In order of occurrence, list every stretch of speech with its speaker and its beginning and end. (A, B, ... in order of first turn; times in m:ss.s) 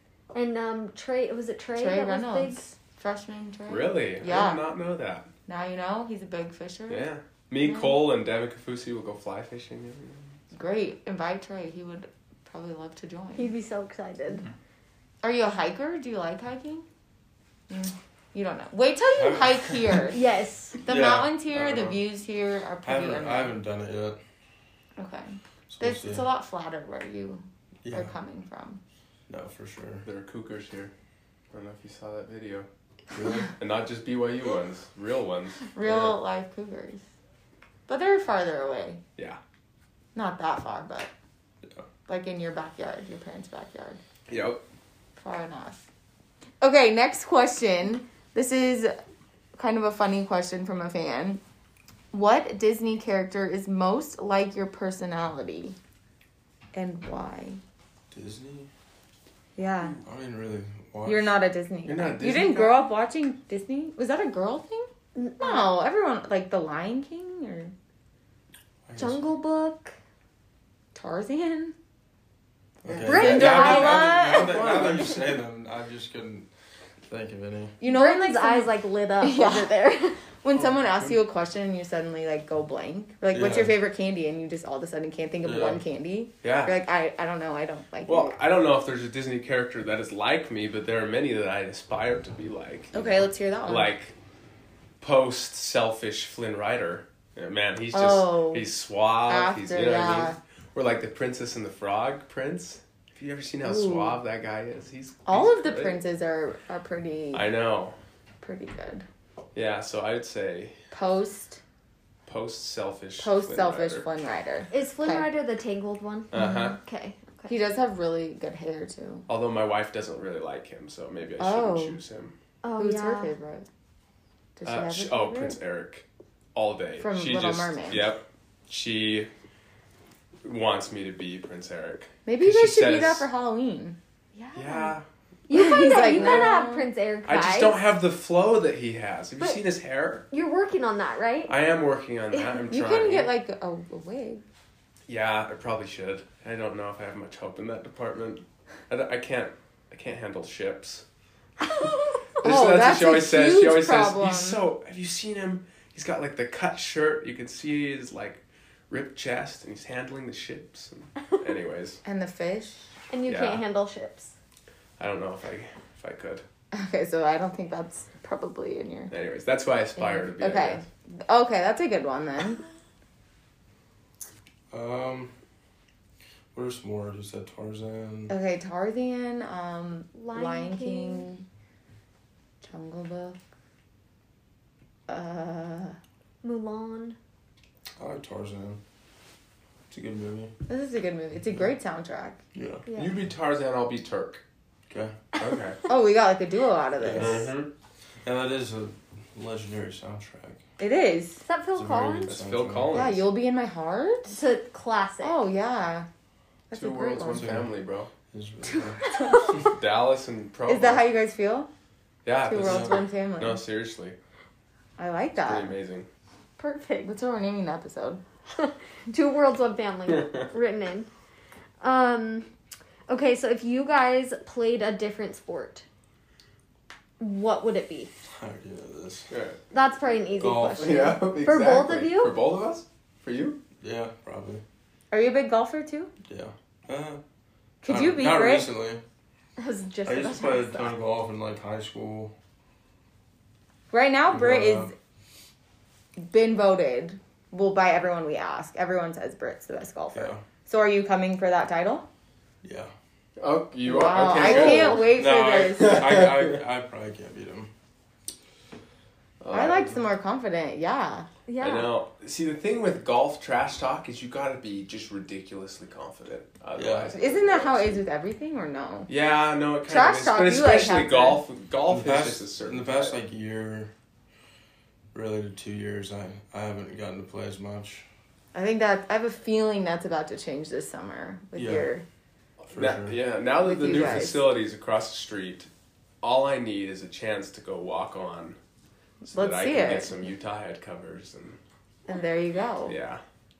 0:00.3-0:02.7 A
0:01.8-0:04.6 B
0:03.7-0:05.3 C
0:05.5-0:07.0 B
0:06.9-0:10.4 C
0:07.6-0:08.0 B
0:10.5-0:13.5 B
0:13.3-0:14.5 A
0:15.2-0:16.8 B
0:17.7-0:20.2 B
0:19.1-0:20.0 D
0:20.1-0:20.8 A
0:20.8-0:23.5 B
0:20.8-0:22.0 D
0:22.8-0:24.2 D
0:25.0-0:28.8 B
0:25.7-0:26.3 D
0:27.8-0:28.1 D
0:29.3-0:30.0 D
0:30.0-0:30.9 C
0:31.5-0:32.7 C
0:33.1-0:33.5 D
0:33.6-0:36.1 C
0:35.7-0:37.0 B
0:37.9-0:39.0 B
0:40.1-0:41.1 B
0:42.1-0:44.0 B
0:44.3-0:44.6 C
0:45.2-0:45.9 B
0:46.6-0:49.0 B
0:49.5-0:51.4 B
0:52.1-0:55.8 B
0:56.7-0:57.6 B
0:58.1-0:58.7 D
0:59.6-1:00.0 B
1:00.0-1:01.3 D
1:01.0-1:04.9 B
1:01.8-1:02.8 C
1:05.1-1:05.7 A
1:05.4-1:07.7 B
1:08.8-1:09.2 D
1:09.0-1:10.0 A
1:10.9-1:11.7 B
1:12.8-1:16.5 D
1:13.0-1:14.6 A
1:13.0-1:15.4 B
1:17.1-1:17.8 D
1:17.8-1:19.7 B
1:17.8-1:20.2 A
1:20.4-1:28.3 B
1:20.5-1:21.2 C
1:23.3-1:23.7 D
1:25.4-1:25.8 D
1:26.4-1:26.8 C
1:28.0-1:34.1 C
1:32.9-1:33.9 B
1:35.0-1:46.0 C
1:37.9-1:38.6 B
1:39.3-1:40.4 B
1:43.6-1:44.2 B
1:45.2-1:47.4 B
1:47.3-1:48.0 C
1:48.4-1:49.0 B
1:49.5-1:50.8 C
1:50.9-1:51.6 B
1:52.2-1:54.0 C
1:53.2-1:55.2 B
1:54.7-1:57.5 A
1:56.3-1:56.8 C
1:56.3-1:56.8 B
1:57.5-1:59.2 B
1:59.3-2:02.3 C
2:01.4-2:02.0 B
2:02.6-2:03.3 A
2:02.8-2:03.7 B
2:04.6-2:05.6 B
2:04.6-2:09.3 C
2:07.0-2:08.0 B
2:10.4-2:13.3 C
2:12.2-2:14.0 B
2:14.3-2:14.9 A
2:14.5-2:15.0 C
2:15.5-2:17.8 A
2:15.5-2:16.9 B
2:16.1-2:16.5 C
2:17.2-2:20.2 C
2:20.3-2:21.5 A
2:21.5-2:23.3 C
2:22.3-2:22.6 A
2:22.7-2:24.4 B
2:25.1-2:31.0 C
2:31.6-2:31.9 C
2:32.4-2:42.0 C
2:32.4-2:34.6 B
2:42.0-2:42.9 B
2:43.1-2:44.3 A
2:43.3-2:43.6 C
2:45.0-2:46.4 C
2:46.7-2:49.1 B
2:49.1-2:50.8 C
2:50.0-2:52.6 B
2:54.7-2:55.3 D
2:56.5-2:58.3 D
2:58.3-3:01.4 B
3:00.1-3:01.3 A
3:02.6-3:03.4 B
3:05.1-3:06.0 B
3:06.4-3:07.2 A
3:08.0-3:08.8 D
3:09.9-3:10.5 D
3:10.7-3:12.4 B
3:12.5-3:12.8 D
3:12.9-3:13.1 A
3:12.9-3:14.4 C
3:14.9-3:15.2 D
3:15.4-3:15.8 C
3:15.9-3:17.5 B
3:17.0-3:17.5 D
3:17.1-3:17.7 C
3:18.2-3:20.6 D
3:20.8-3:21.4 B
3:21.4-3:22.4 A
3:21.7-3:23.0 D
3:22.2-3:23.2 C
3:22.9-3:24.4 B
3:24.3-3:25.3 A
3:25.2-3:26.1 B
3:26.7-3:27.5 B
3:26.7-3:28.1 C
3:27.3-3:27.7 D
3:28.3-3:29.6 D
3:28.8-3:29.5 B
3:29.6-3:31.0 C
3:30.7-3:31.7 B
3:32.2-3:34.2 C
3:32.4-3:33.6 B
3:32.6-3:33.0 D
3:35.0-3:35.7 B
3:35.4-3:36.1 C
3:36.6-3:37.1 A
3:37.0-3:38.2 B
3:38.5-3:41.1 A
3:41.8-3:42.5 A
3:43.1-3:45.8 A
3:47.2-3:48.1 A
3:48.3-3:49.3 D
3:49.3-3:49.6 C
3:49.7-3:52.3 A
3:50.4-3:51.0 D
3:50.8-3:53.6 C
3:53.8-3:54.6 D
3:55.1-3:56.1 B
3:56.2-3:57.2 D
3:57.8-3:58.7 B
3:57.8-3:59.0 D
3:59.6-4:01.0 A
4:00.0-4:02.3 D
4:03.9-4:04.9 B
4:04.3-4:04.9 D
4:06.2-4:12.0 B
4:10.1-4:10.4 D
4:12.6-4:12.9 D
4:13.4-4:15.1 C
4:13.8-4:16.0 B
4:14.4-4:17.7 D
4:15.8-4:16.6 C
4:19.4-4:20.0 C
4:19.5-4:21.3 B
4:21.5-4:21.9 A
4:21.6-4:28.0 C
4:26.8-4:27.1 D
4:27.1-4:29.1 B
4:29.1-4:33.2 C
4:29.9-4:31.4 B
4:31.9-4:33.9 D
4:35.1-4:38.1 D
4:38.5-4:42.0 B
4:41.5-4:41.9 D
4:42.6-4:45.7 C
4:42.7-4:43.2 D
4:43.6-4:44.4 B
4:46.2-4:48.6 C
4:49.2-4:51.6 C
4:49.3-4:50.3 B
4:52.1-4:53.0 B
4:52.8-4:53.2 C